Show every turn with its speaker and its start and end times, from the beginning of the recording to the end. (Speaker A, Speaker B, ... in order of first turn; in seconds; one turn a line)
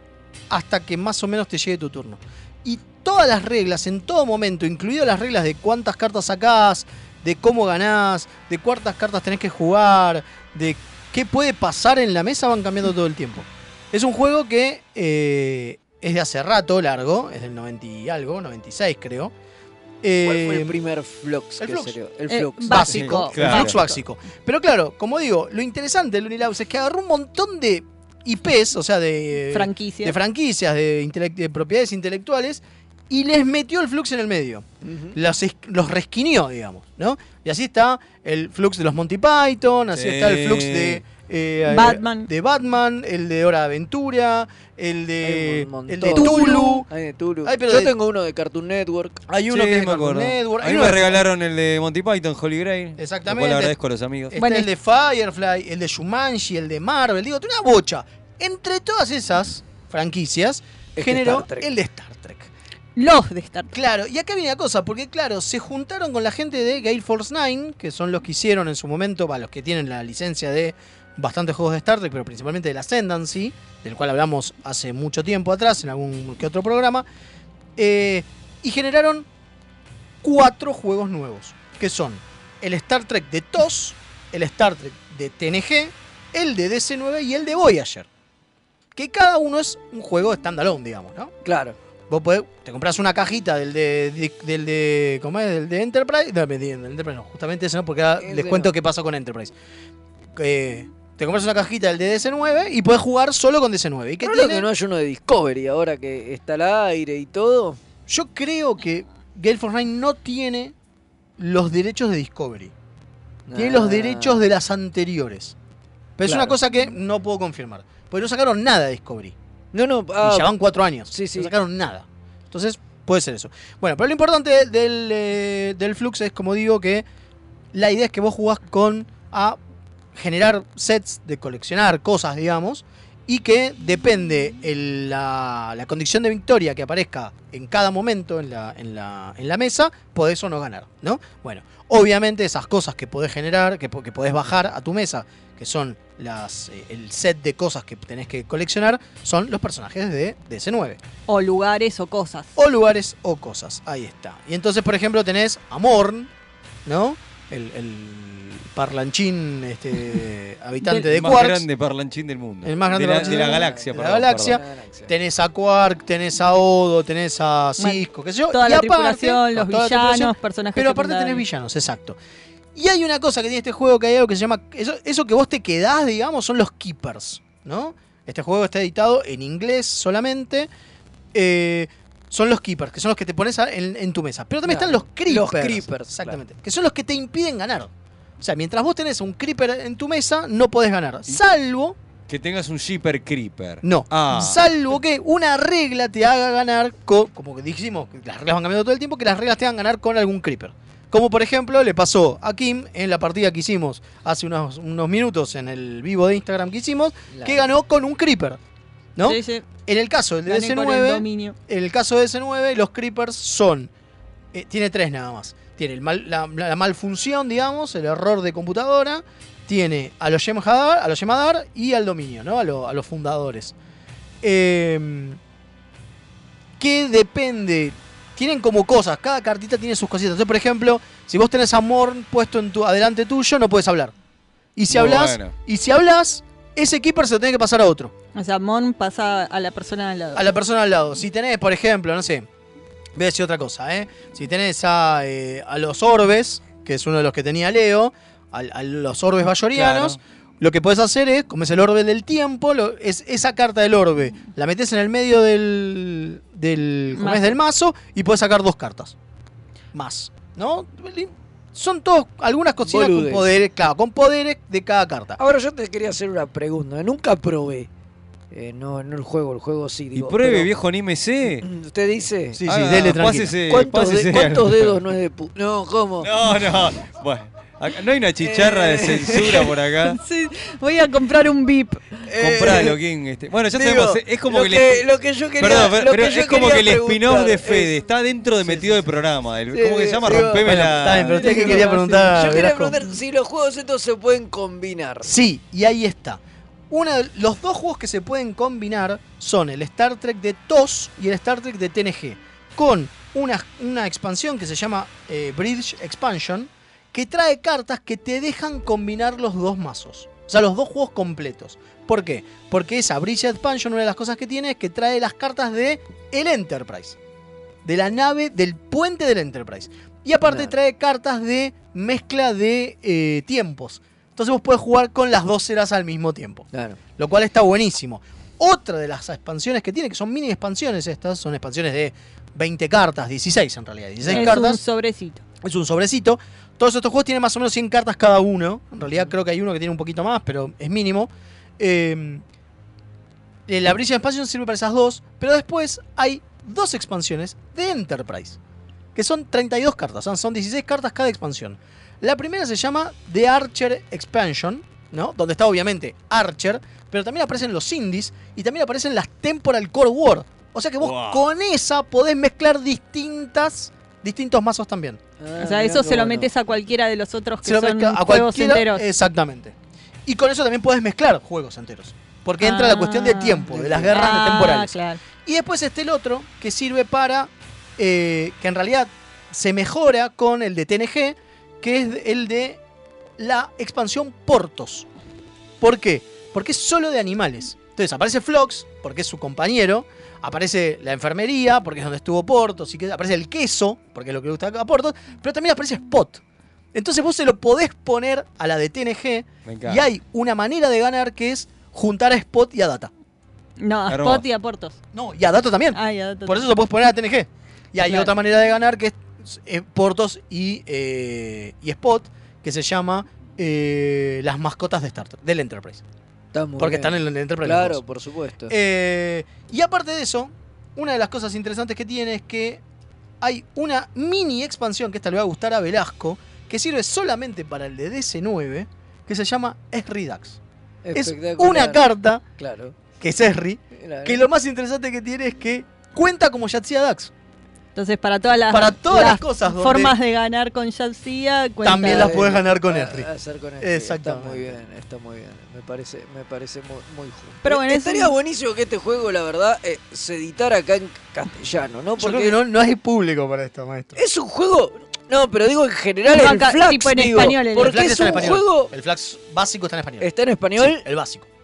Speaker A: 0.5-19.3
Speaker A: 20.0-20.7
Speaker B: 20.2-22.9
Speaker A: 21.6-22.0
Speaker C: 22.3-23.8
Speaker A: 22.6-46.9
Speaker D: 22.8-23.8
Speaker C: 29.5-30.2
Speaker B: 34.8-35.2
Speaker D: 39.9-41.0
Speaker C: 41.7-42.3
Speaker B: 45.2-49.2
Speaker C: 46.1-46.8
Speaker A: 47.5-47.9
Speaker A: 49.3-51.2
Speaker D: 49.5-54.4
Speaker A: 53.0-53.8
Speaker A: 54.3-62.5
Speaker C: 54.4-54.7
Speaker B: 61.0-61.7
Speaker C: 63.0-63.7
Speaker A: 63.7-77.1
Speaker A: 77.8-79.3
Speaker A: 80.2-88.1
Speaker A: 89.0-91.3
Speaker B: 91.5-91.8
Speaker A: 92.1-99.5
Speaker B: 98.2-98.7
Speaker A: 100.4-104.7
Speaker B: 104.2-107.8
Speaker A: 108.1-110.7
Speaker A: 111.4-112.7
Speaker B: 113.5-114.4
Speaker A: 113.5-115.5
Speaker A: 116.2-119.3
Speaker B: 116.2-116.5
Speaker B: 119.7-120.5
Speaker A: 120.2-127.1
Speaker B: 121.1-121.5
Speaker A: 127.7-129.6
Speaker A: 130.2-151.0
Speaker C: 151.3-152.5
Speaker A: 152.6-156.3
Speaker A: 156.9-161.7
Speaker D: 161.1-164.6
Speaker A: 162.6-172.2
Speaker B: 163.1-165.1
Speaker C: 167.8-171.4
Speaker A: 172.8-180.7
Speaker A: 181.3-192.0
Speaker B: 184.7-186.4
Speaker D: 192.3-194.7
Speaker A: 193.8-208.6
Speaker B: 207.3-207.6
Speaker A: 209.2-213.9
Speaker C: 209.2-209.7
Speaker C: 210.5-211.6
Speaker A: 214.5-223.7
Speaker A: 224.4-225.4
Speaker A: 226.8-234.1
Speaker A: 234.8-238.1
Speaker D: 234.9-235.5
Speaker C: 238.3-240.5
Speaker A: 240.3-242.5
Speaker A: 243.2-259.2
Speaker D: 249.7-250.2
Speaker C: 257.2-257.6
Speaker A: 259.9-265.4
Speaker B: 262.9-263.5
Speaker B: 265.4-267.9
Speaker B: 268.5-270.7
Speaker D: 270.2-271.6
Speaker B: 271.6-272.6
Speaker A: 272.5-273.6
Speaker D: 272.6-275.0
Speaker B: 273.7-276.3
Speaker D: 276.2-280.2
Speaker B: 278.4-279.7
Speaker C: 280.1-282.1
Speaker B: 282.2-283.0
Speaker D: 282.4-285.0
Speaker B: 283.7-288.1
Speaker D: 285.6-291.4
Speaker B: 288.7-288.9
Speaker B: 289.7-295.3
Speaker A: 290.4-293.0
Speaker C: 291.4-292.4
Speaker A: 295.2-317.2
Speaker A: 317.9-334.8
Speaker B: 320.5-320.7
Speaker B: 326.7-327.0
Speaker B: 334.2-334.6
Speaker C: 334.3-335.4
Speaker A: 335.6-342.4
Speaker A: 343.7-348.6
Speaker A: 349.1-365.2
Speaker D: 361.0-361.5
Speaker B: 365.4-366.5
Speaker C: 365.6-369.1
Speaker A: 367.6-369.8
Speaker A: 370.3-382.8
Speaker C: 372.6-375.2
Speaker B: 373.7-374.2
Speaker A: 383.4-385.1
Speaker A: 385.8-396.4
Speaker A: 396.9-403.1
Speaker D: 399.7-400.0
Speaker C: 403.8-405.0
Speaker D: 404.1-404.4
Speaker A: 405.1-416.0
Speaker C: 405.9-406.7
Speaker C: 408.0-408.3
Speaker B: 416.5-418.8
Speaker A: 416.8-418.0
Speaker A: 418.7-422.8
Speaker A: 423.4-430.6
Speaker B: 431.0-432.9
Speaker A: 431.1-432.4
Speaker A: 433.2-437.3
Speaker B: 434.0-434.4
Speaker C: 437.9-442.4
Speaker A: 438.7-440.1
Speaker A: 441.8-443.3
Speaker B: 442.0-452.6
Speaker A: 443.8-444.8
Speaker C: 447.6-448.3
Speaker A: 452.2-454.2
Speaker B: 454.2-458.9
Speaker C: 456.3-458.1
Speaker A: 457.8-461.5
Speaker B: 460.2-461.1